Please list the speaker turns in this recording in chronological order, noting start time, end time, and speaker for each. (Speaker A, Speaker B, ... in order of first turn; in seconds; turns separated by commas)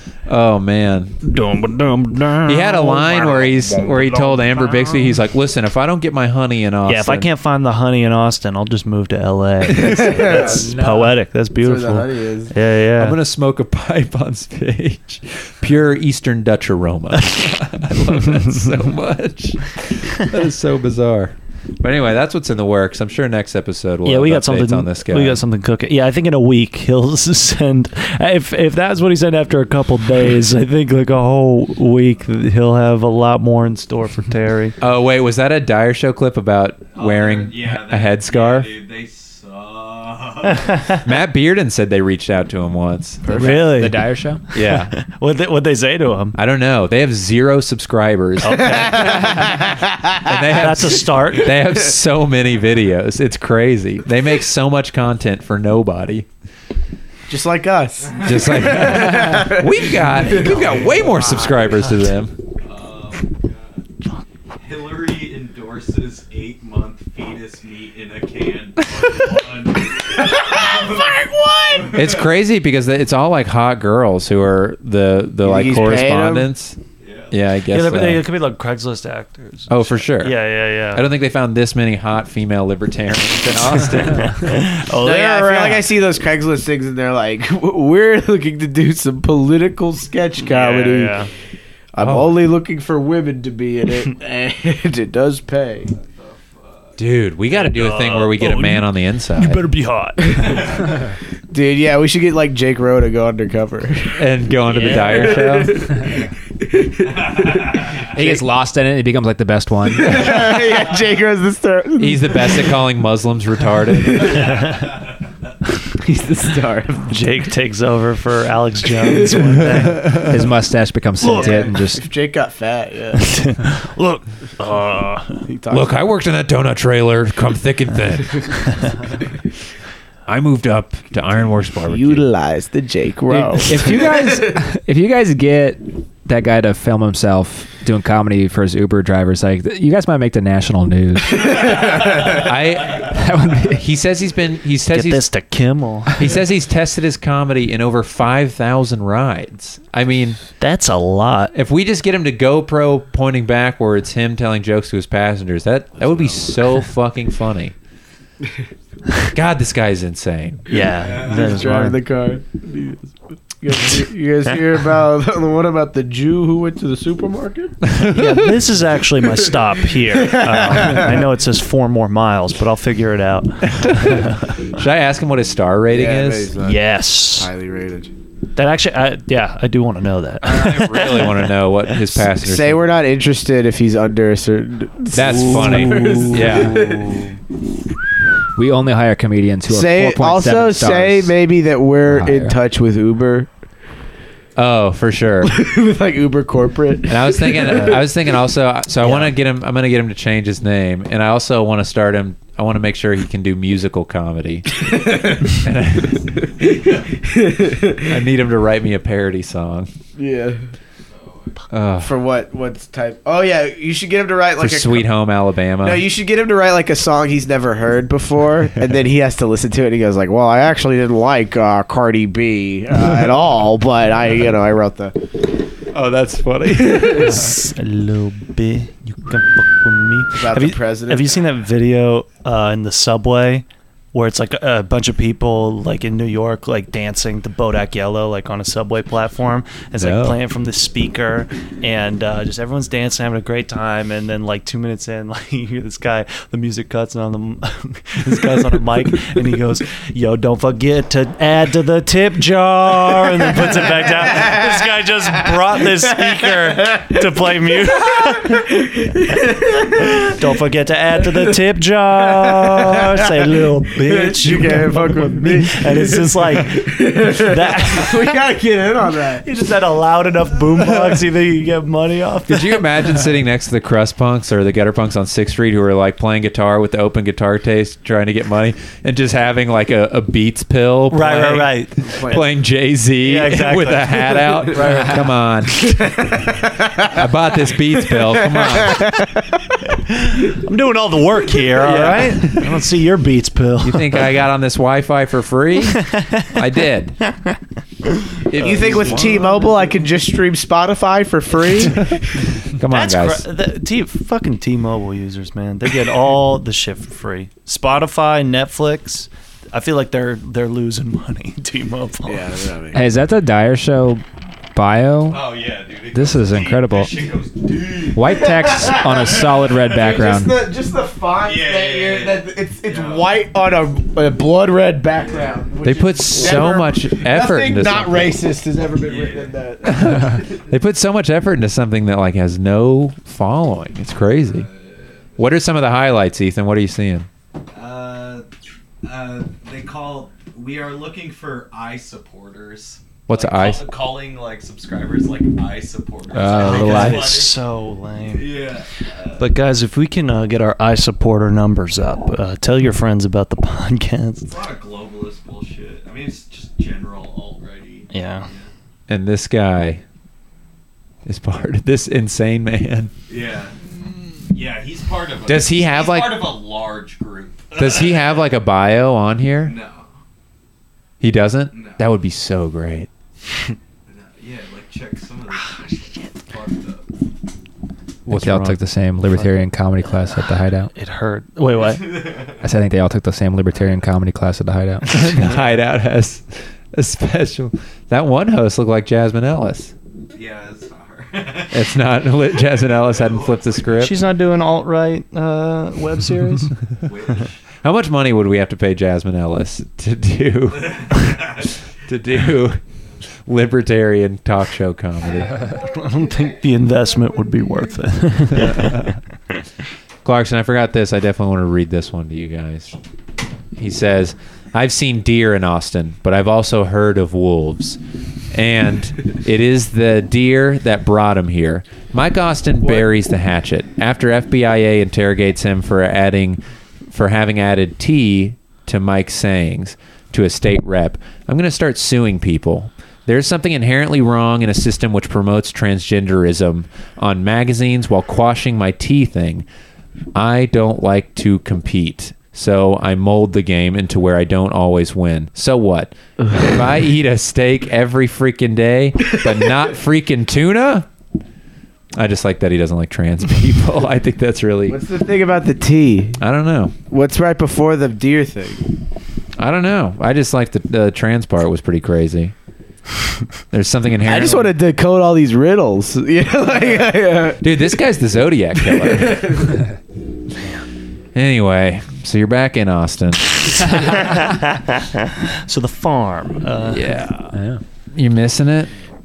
Speaker A: 0.3-1.2, Speaker B: 1.2-5.1, Speaker A: 2.5-7.3, Speaker B: 6.8-13.2, Speaker C: 9.7-10.7, Speaker D: 10.3-11.1, Speaker C: 11.6-12.5, Speaker A: 13.0-25.4, Speaker B: 24.0-34.8, Speaker A: 34.8-38.7, Speaker E: 36.9-40.8, Speaker B: 40.5-41.0, Speaker A: 41.0-43.5, Speaker C: 43.2-43.6, Speaker B: 43.3-46.4, Speaker D: 43.4-44.4, Speaker A: 44.5-44.9, Speaker A: 46.3-49.7, Speaker B: 48.4-49.5, Speaker C: 48.7-50.2, Speaker A: 50.2-56.3, Speaker B: 50.5-51.6, Speaker C: 57.3-60.6, Speaker A: 58.2-62.3, Speaker B: 60.2-62.0, Speaker E: 62.6-63.8, Speaker E: 64.6-72.2, Speaker C: 70.4-71.9, Speaker A: 71.9-76.8, Speaker C: 75.4-76.5, Speaker E: 77.0-77.4, Speaker A: 77.3-78.2, Speaker B: 77.7-81.0, Speaker A: 79.7-84.6, Speaker B: 84.1-85.8, Speaker C: 85.0-91.2, Speaker B: 90.4-91.3, Speaker C: 91.9-95.9, Speaker A: 92.0-92.4, Speaker E: 96.0-96.9, Speaker A: 97.0-99.7, Speaker B: 97.5-100.9, Speaker E: 100.6-100.9, Speaker C: 101.5-104.2, Speaker A: 104.2-105.9, Speaker B: 104.8-105.2, Speaker C: 104.9-106.2, Speaker C: 106.8-108.2, Speaker E: 107.2-108.0, Speaker D: 108.1-110.4, Speaker C: 110.0-112.7, Speaker A: 112.0-114.6, Speaker C: 114.0-114.6, Speaker B: 114.5-114.8, Speaker C: 116.0-117.2, Speaker B: 117.0-120.4, Speaker A: 119.6-120.3, Speaker D: 120.1-122.0, Speaker B: 121.2-121.7, Speaker C: 121.3-123.5, Speaker B: 123.2-125.4, Speaker C: 125.5-126.0, Speaker A: 125.7-128.6, Speaker A: 130.3-132.2, Speaker C: 131.8-134.3, Speaker D: 133.3-141.6, Speaker C: 141.8-142.2, Speaker A: 142.2-145.2, Speaker D: 143.1-143.8, Speaker B: 144.9-146.3, Speaker A: 146.1-150.4, Speaker B: 150.6-151.5, Speaker A: 151.5-157.7, Speaker A: 159.3-160.6, Speaker B: 160.7-162.0, Speaker E: 160.9-161.6, Speaker C: 161.2-167.8, Speaker A: 167.9-168.6, Speaker B: 168.1-174.4, Speaker C: 170.1-171.2, Speaker A: 173.8-176.5, Speaker C: 175.9-178.1, Speaker B: 176.6-177.5, Speaker B: 178.5-181.4, Speaker A: 180.4-182.9, Speaker C: 182.4-187.3, Speaker A: 185.1-186.9, Speaker B: 185.2-187.2, Speaker D: 188.6-191.3, Speaker C: 189.7-193.5, Speaker D: 192.1-192.6, Speaker A: 194.6-195.5, Speaker C: 195.4-198.0, Speaker A: 197.1-204.9, Speaker C: 204.8-208.1, Speaker A: 205.6-206.2, Speaker A: 208.0-209.9, Speaker C: 210.2-210.7, Speaker E: 211.2-211.5, Speaker A: 211.7-212.1, Speaker C: 212.0-215.1, Speaker A: 214.6-216.0, Speaker C: 215.8-225.1, Speaker A: 225.9-227.5, Speaker B: 226.9-258.7, Speaker C: 230.4-231.5, Speaker A: 240.0-240.4, Speaker C: 254.3-254.7, Speaker C: 256.0-257.2, Speaker C: 258.8-260.3, Speaker B: 259.9-268.3, Speaker C: 262.3-269.4, Speaker B: 269.4-272.9, Speaker A: 270.8-271.2, Speaker A: 272.5-286.1, Speaker B: 281.1-282.4, Speaker C: 282.1-282.4, Speaker B: 283.2-285.0, Speaker C: 284.7-285.1, Speaker C: 285.8-287.1, Speaker A: 287.1-289.2, Speaker C: 288.1-289.2, Speaker B: 290.3-294.3, Speaker A: 291.8-292.8, Speaker A: 293.8-296.0, Speaker B: 295.8-296.6, Speaker A: 296.5-297.2, Speaker B: 298.4-299.7, Speaker A: 298.5-299.4, Speaker C: 298.5-302.1, Speaker A: 302.8-303.4, Speaker B: 302.9-312.6, Speaker C: 312.2-313.0, Speaker D: 312.9-314.2, Speaker D: 314.7-315.4, Speaker E: 315.2-320.1, Speaker D: 316.1-317.2, Speaker D: 318.1-320.6, Speaker C: 318.2-319.3, Speaker C: 319.9-330.5, Speaker E: 321.4-323.4, Speaker E: 325.1-325.7, Speaker A: 325.8-328.4, Speaker E: 329.0-329.6, Speaker A: 329.8-334.7, Speaker E: 334.5-335.4, Speaker A: 335.4-337.3, Speaker E: 337.7-338.4, Speaker E: 339.0-347.6, Speaker A: 343.3-343.9, Speaker D: 346.3-347.3, Speaker B: 346.5-348.6, Speaker A: 346.6-347.1, Speaker E: 348.2-349.4, Speaker B: 349.4-354.5, Speaker E: 354.4-358.7, Speaker B: 358.1-358.5, Speaker A: 359.1-360.0, Speaker A: 361.2-363.1, Speaker E: 363.3-368.4, Speaker A: 365.5-366.6, Speaker A: 367.7-369.8, Speaker E: 369.6-370.1, Speaker A: 371.2-373.1, Speaker E: 371.7-372.0, Speaker E: 374.1-377.1, Speaker B: 378.3-378.6, Speaker A: 378.3-378.8, Speaker D: 378.3-380.9, Speaker B: 380.9-382.4, Speaker E: 381.7-382.6, Speaker D: 382.6-385.2, Speaker A: 385.1-389.9, Speaker E: 390.3-394.0, Speaker A: 391.7-394.2, Speaker B: 394.0-396.7, Speaker E: 397.0-397.6, Speaker A: 397.8-402.8, Speaker E: 400.7-401.7, Speaker A: 403.4-405.7, Speaker B: 405.8-409.2, Speaker A: 408.5-409.2, Speaker A: 410.2-412.9, Speaker A: 413.7-418.0, Speaker A: 418.5-439.7, Speaker A: 440.3-451.1, Speaker A: 452.1-455.0, Speaker C: 454.9-456.4, Speaker A: 456.4-456.9, Speaker C: 457.1-458.8, Speaker A: 459.6-462.5, Speaker A: 463.7-464.7, Speaker C: 464.2-467.8, Speaker A: 467.6-469.7, Speaker C: 468.9-469.8, Speaker A: 471.3-474.2, Speaker B: 473.9-477.5, Speaker A: 476.9-477.5, Speaker D: 477.5-477.8, Speaker A: 478.1-478.9